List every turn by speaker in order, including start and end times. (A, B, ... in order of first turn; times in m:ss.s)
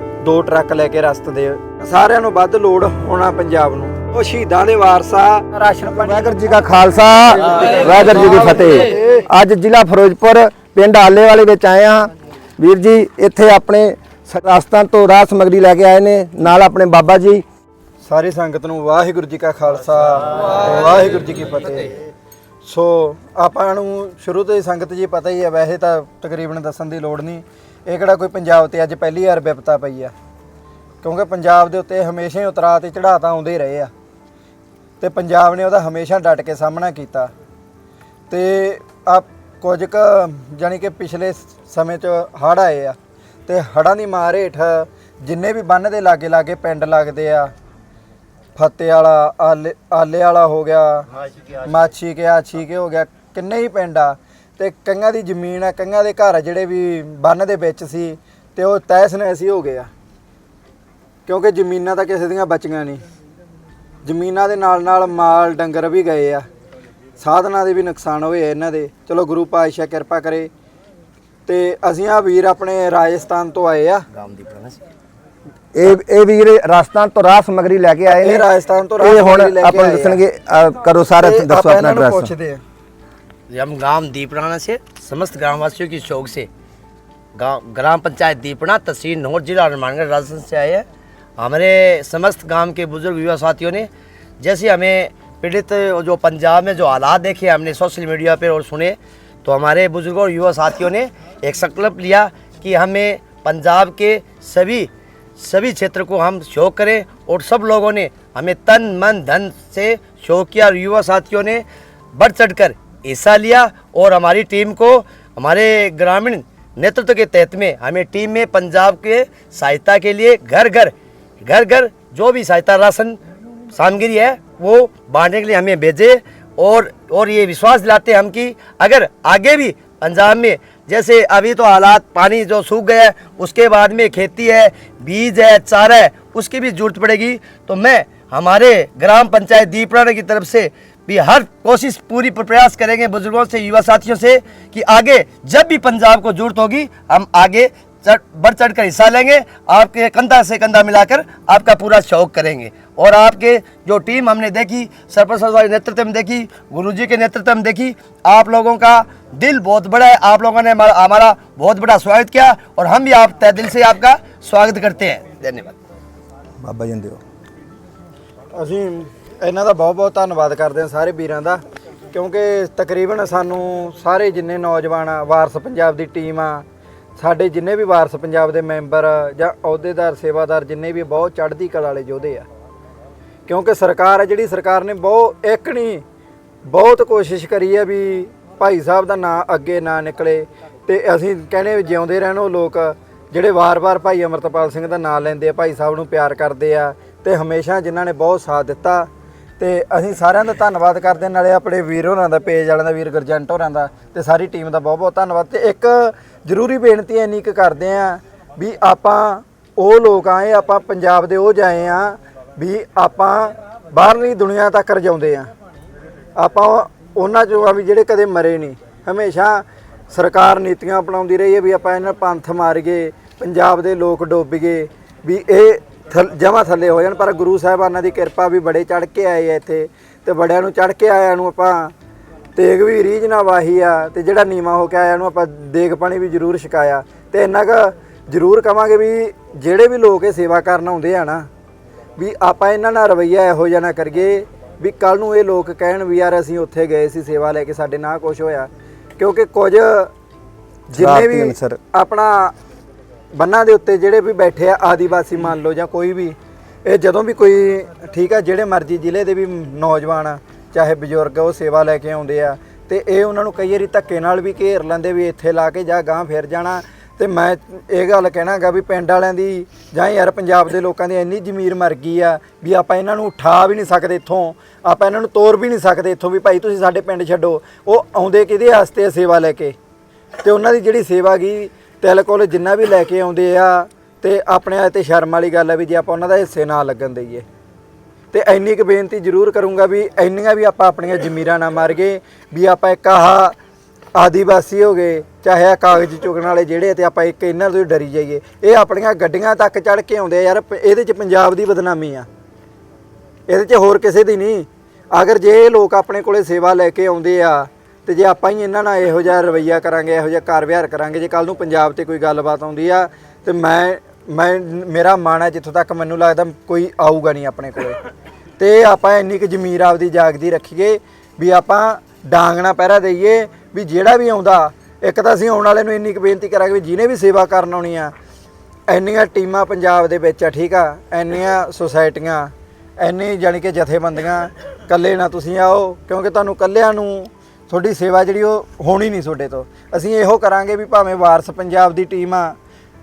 0:00.2-0:06.6 A
0:06.0-0:17.4 B
0:07.4-0:09.2 A
0:18.1-0:21.9 A
0:22.6-0:30.1 A
0:31.0-0:33.9 A
0:35.0-0:37.3 A
0:38.3-0:43.0 A
0:43.5-0:47.5 A
0:48.6-0:59.9 A
1:01.3-1:03.0 A
1:04.0-1:06.4 A
1:07.2-1:10.5 A
1:11.5-1:14.0 A
1:14.1-1:14.8 C
1:15.7-1:18.4 B
1:18.1-1:20.2 A
1:19.0-1:22.3 B
1:21.2-1:22.6 A
1:23.5-1:26.5 C
1:27.4-1:30.9 C
1:31.4-1:33.9 C
1:34.4-1:51.6 C
1:52.2-2:03.2 C
2:03.7-2:45.7 C
2:46.6-2:47.2 B
2:48.5-2:51.6 A
2:52.1-2:56.6 A
2:57.2-3:02.5 A
3:03.5-3:06.0 A
3:06.7-3:19.1 A
3:19.6-3:35.5 A
3:36.4-3:51.9 A
3:52.6-4:01.5 A
4:02.2-4:10.1 A
4:10.9-4:12.5 A
4:10.9-4:11.8 B
4:13.4-4:39.8 A
4:40.4-4:47.4 A
4:48.3-4:53.6 A
4:54.2-5:02.3 A
5:03.5-5:18.0 A
5:18.6-5:28.1 A
5:28.9-5:42.6 A